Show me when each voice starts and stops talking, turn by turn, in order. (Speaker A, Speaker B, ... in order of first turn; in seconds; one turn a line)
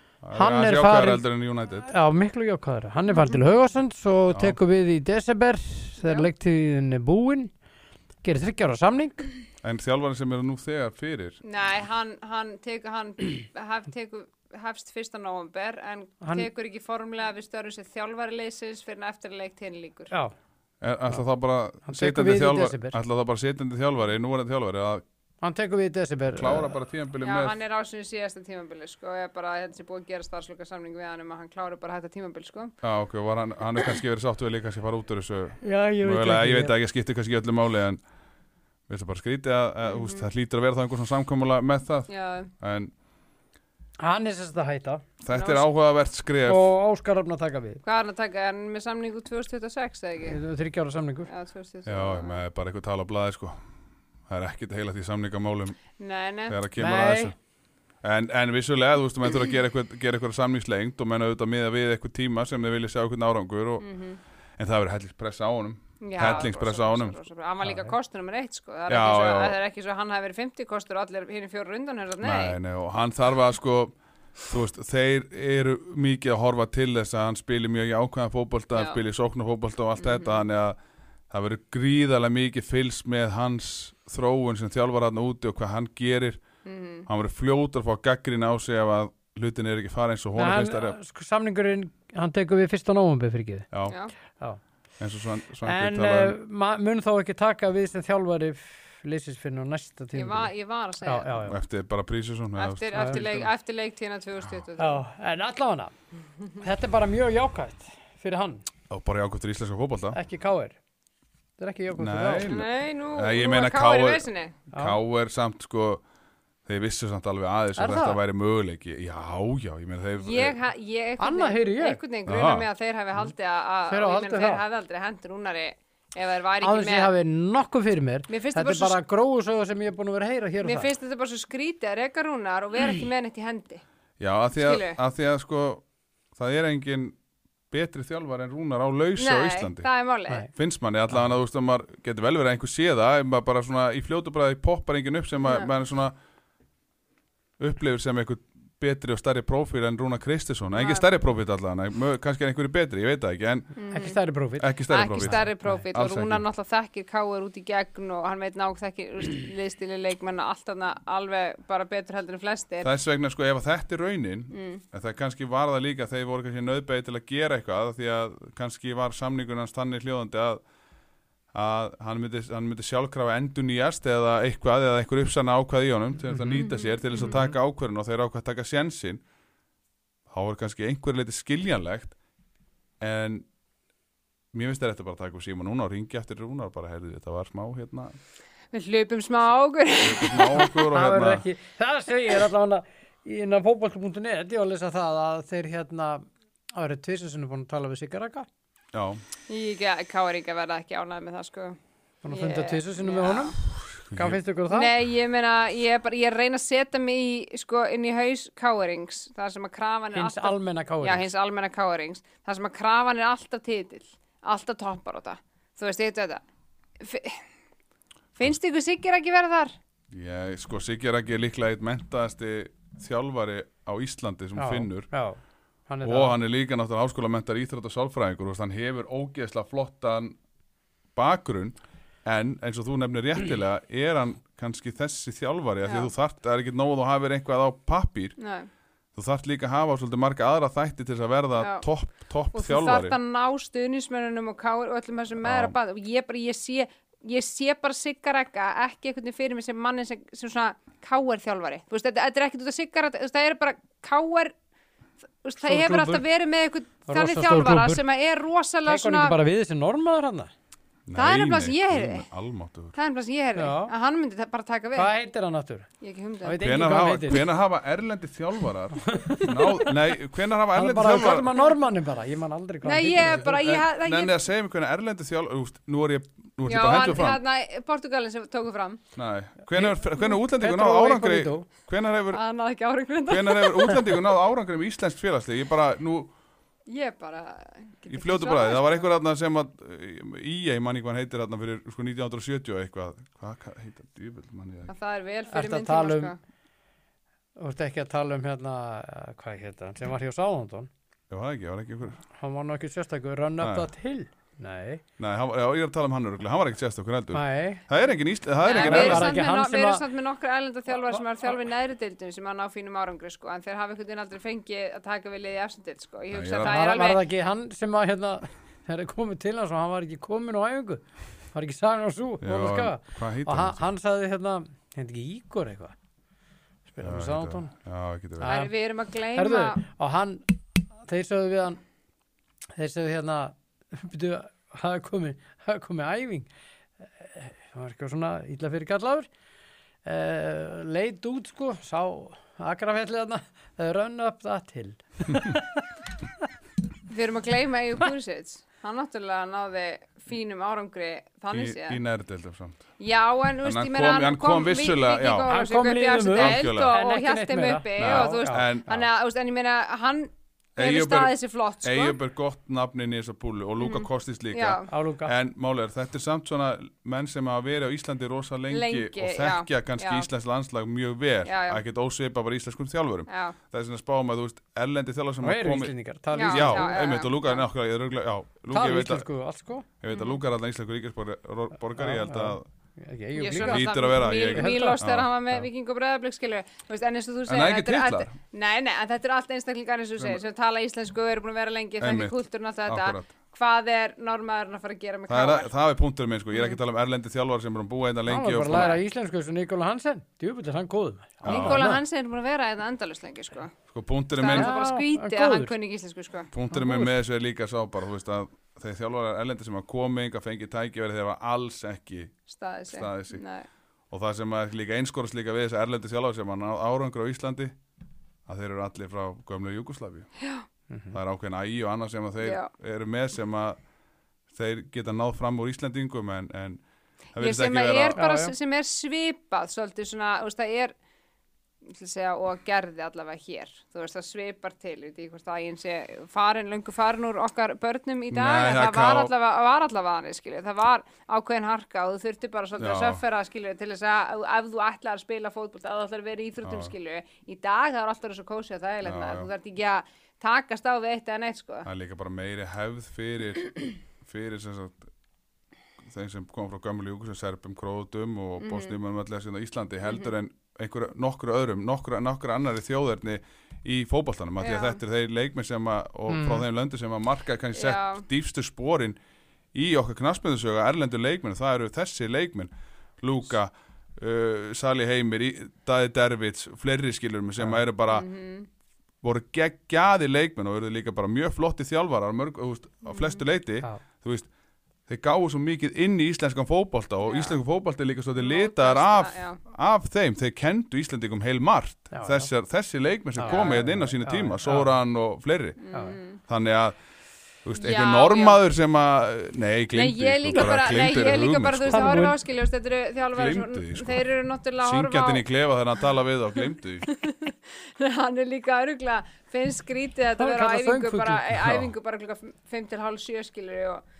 Speaker A: 0.2-1.9
Speaker B: 0.3-1.2
Speaker B: 1.9-7.5
Speaker A: 4.3-4.6
Speaker C: 6.0-6.3
Speaker B: 8.2-9.3
Speaker A: 9.6-11.4
Speaker C: 11.4-20.1
Speaker B: 16.2-16.5
Speaker A: 20.8-25.0
Speaker B: 21.8-23.0
Speaker B: 25.4-26.7
Speaker A: 26.3-27.6
Speaker C: 27.2-32.7
Speaker A: 32.8-38.0
Speaker B: 35.6-36.7
Speaker A: 38.9-42.9
Speaker C: 39.8-40.3
Speaker C: 42.1-42.5
Speaker B: 44.0-45.0
Speaker A: 45.2-46.7
Speaker C: 45.3-45.6
Speaker B: 46.4-47.8
Speaker C: 47.8-50.4
Speaker B: 50.2-51.3
Speaker C: 51.3-52.4
Speaker A: 51.9-53.5
Speaker A: 54.3-55.9
Speaker C: 56.0-56.6
Speaker A: 56.5-57.3
Speaker B: 56.8-57.3
Speaker A: 58.0-63.8
Speaker C: 63.8-64.2
Speaker A: 64.6-67.2
Speaker C: 66.0-72.6
Speaker B: 67.6-67.9
Speaker A: 68.9-69.6
Speaker A: 72.2-80.8
Speaker C: 80.0-80.5
Speaker A: 81.3-86.4
Speaker C: 86.6-87.1
Speaker A: 87.1-91.0
Speaker B: 90.3-93.7
Speaker A: 93.7-94.0
Speaker C: 93.9-94.1
Speaker A: 95.0-96.3
Speaker B: 95.6-100.5
Speaker C: 100.1-101.5
Speaker B: 101.0-101.6
Speaker A: 101.5-103.5
Speaker C: 102.6-105.0
Speaker B: 102.9-103.2
Speaker B: 104.8-105.9
Speaker B: 106.6-108.7
Speaker A: 108.9-110.2
Speaker B: 110.1-110.8
Speaker B: 111.6-112.5
Speaker A: 112.0-116.0
Speaker C: 112.4-114.6
Speaker A: 116.7-120.6
Speaker B: 117.8-118.2
Speaker C: 120.2-127.1
Speaker B: 121.2-122.0
Speaker A: 122.2-122.7
Speaker B: 123.9-124.6
Speaker B: 126.6-130.9
Speaker C: 128.3-129.0
Speaker C: 130.6-133.8
Speaker A: 134.2-135.8
Speaker C: 134.5-135.0
Speaker A: 136.3-137.2
Speaker A: 137.7-139.9
Speaker C: 139.2-140.5
Speaker A: 140.5-146.1
Speaker C: 145.4-145.7
Speaker A: 147.6-153.7
Speaker C: 150.7-151.0
Speaker C: 153.8-154.2
Speaker B: 153.9-155.8
Speaker A: 154.6-156.4
Speaker C: 154.9-162.9
Speaker A: 162.8-170.6
Speaker C: 164.5-164.8
Speaker A: 171.5-179.2
Speaker C: 176.5-177.5
Speaker A: 180.3-182.2
Speaker A: 183.0-183.5
Speaker A: 184.5-188.2
Speaker C: 188.7-190.8
Speaker A: 190.0-191.4
Speaker B: 190.9-198.5
Speaker A: 198.9-199.2
Speaker C: 199.5-201.8
Speaker B: 202.2-204.9
Speaker C: 202.3-203.6
Speaker A: 204.1-204.4
Speaker C: 204.7-216.4
Speaker B: 210.1-211.3
Speaker C: 217.0-217.4
Speaker C: 218.3-219.7
Speaker A: 220.1-225.1
Speaker B: 224.6-226.4
Speaker A: 226.0-230.3
Speaker A: 231.1-238.3
Speaker C: 235.8-236.1
Speaker C: 238.4-238.7
Speaker A: 239.1-243.2
Speaker C: 241.6-241.8
Speaker C: 242.5-254.5
Speaker A: 245.4-245.8
Speaker C: 255.4-259.4
Speaker B: 255.6-256.2
Speaker B: 257.1-258.0
Speaker B: 258.9-260.5
Speaker A: 261.1-263.0
Speaker C: 261.1-262.3
Speaker C: 262.9-265.1
Speaker B: 263.6-263.9
Speaker B: 264.9-265.9
Speaker C: 266.0-266.7
Speaker B: 266.4-267.4
Speaker A: 266.6-271.5
Speaker B: 269.1-269.9
Speaker B: 270.7-273.8
Speaker C: 272.8-274.4
Speaker A: 273.6-277.4
Speaker C: 276.6-279.0
Speaker A: 279.1-282.4
Speaker B: 279.8-281.7
Speaker C: 282.3-284.2
Speaker A: 283.2-286.3
Speaker C: 286.9-289.0
Speaker A: 288.1-294.9
Speaker C: 294.9-296.4
Speaker B: 295.5-296.3
Speaker B: 297.6-300.9
Speaker A: 301.3-302.2
Speaker B: 302.3-305.0
Speaker A: 303.6-303.9
Speaker A: 305.2-309.4
Speaker B: 307.3-307.9
Speaker C: 308.6-317.2
Speaker B: 308.7-310.0
Speaker B: 311.0-311.2
Speaker A: 316.3-316.8
Speaker B: 316.6-325.9
Speaker A: 322.4-323.9
Speaker B: 326.9-327.7
Speaker A: 327.0-328.6
Speaker B: 328.4-328.7
Speaker C: 328.4-329.8
Speaker B: 329.3-330.5
Speaker B: 331.0-331.8
Speaker B: 332.8-336.5
Speaker B: 337.2-339.3
Speaker B: 340.0-345.8
Speaker C: 347.1-352.0
Speaker A: 351.5-352.9
Speaker C: 353.0-362.2
Speaker A: 353.6-355.5
Speaker B: 355.5-358.7
Speaker A: 356.3-356.9
Speaker A: 358.0-359.1
Speaker A: 360.8-379.3
Speaker C: 363.8-364.9
Speaker B: 364.9-365.4
Speaker C: 368.7-370.3
Speaker C: 371.4-371.8
Speaker C: 373.3-373.6
Speaker B: 375.4-376.9
Speaker C: 376.3-377.6
Speaker B: 378.7-379.9
Speaker A: 380.0-382.6
Speaker C: 380.1-380.4
Speaker B: 382.0-383.9
Speaker C: 383.3-395.7
Speaker A: 383.6-385.3
Speaker B: 384.5-385.0
Speaker A: 387.5-388.3
Speaker A: 392.0-393.3
Speaker A: 395.3-399.0
Speaker C: 396.5-396.8
Speaker B: 398.3-402.0
Speaker C: 398.7-399.0
Speaker A: 401.4-401.8
Speaker C: 401.4-403.8
Speaker A: 403.9-404.7
Speaker C: 404.4-406.5
Speaker B: 404.5-405.7
Speaker A: 406.5-412.3
Speaker B: 406.7-407.1
Speaker C: 412.5-413.6
Speaker A: 412.9-413.4
Speaker A: 414.1-417.7
Speaker A: 418.5-420.3
Speaker C: 420.4-420.6
Speaker A: 421.1-423.8
Speaker C: 422.4-422.7
Speaker A: 424.5-426.8
Speaker A: 427.3-428.2
Speaker C: 427.4-430.9
Speaker B: 428.1-428.5
Speaker C: 431.9-451.9
Speaker A: 438.3-439.3
Speaker A: 442.8-443.2
Speaker A: 446.6-446.9
Speaker A: 449.0-449.5
Speaker A: 451.8-455.1
Speaker A: 456.0-469.2
Speaker C: 458.6-458.9
Speaker C: 460.0-460.3
Speaker C: 464.6-465.0
Speaker B: 466.3-466.6
Speaker C: 467.7-468.2
Speaker A: 469.7-478.2
Speaker C: 478.1-478.7
Speaker A: 479.2-484.5
Speaker C: 483.0-483.4
Speaker A: 485.1-495.8
Speaker C: 487.2-487.6
Speaker C: 488.4-489.6
Speaker B: 492.1-492.5
Speaker B: 493.4-494.9
Speaker C: 493.4-493.8
Speaker C: 495.8-496.4
Speaker A: 496.5-497.0
Speaker A: 497.6-502.2
Speaker C: 497.8-498.6
Speaker C: 499.9-505.4
Speaker B: 501.9-502.3
Speaker A: 503.3-507.1
Speaker C: 506.6-514.0
Speaker B: 510.4-511.8
Speaker A: 511.6-511.9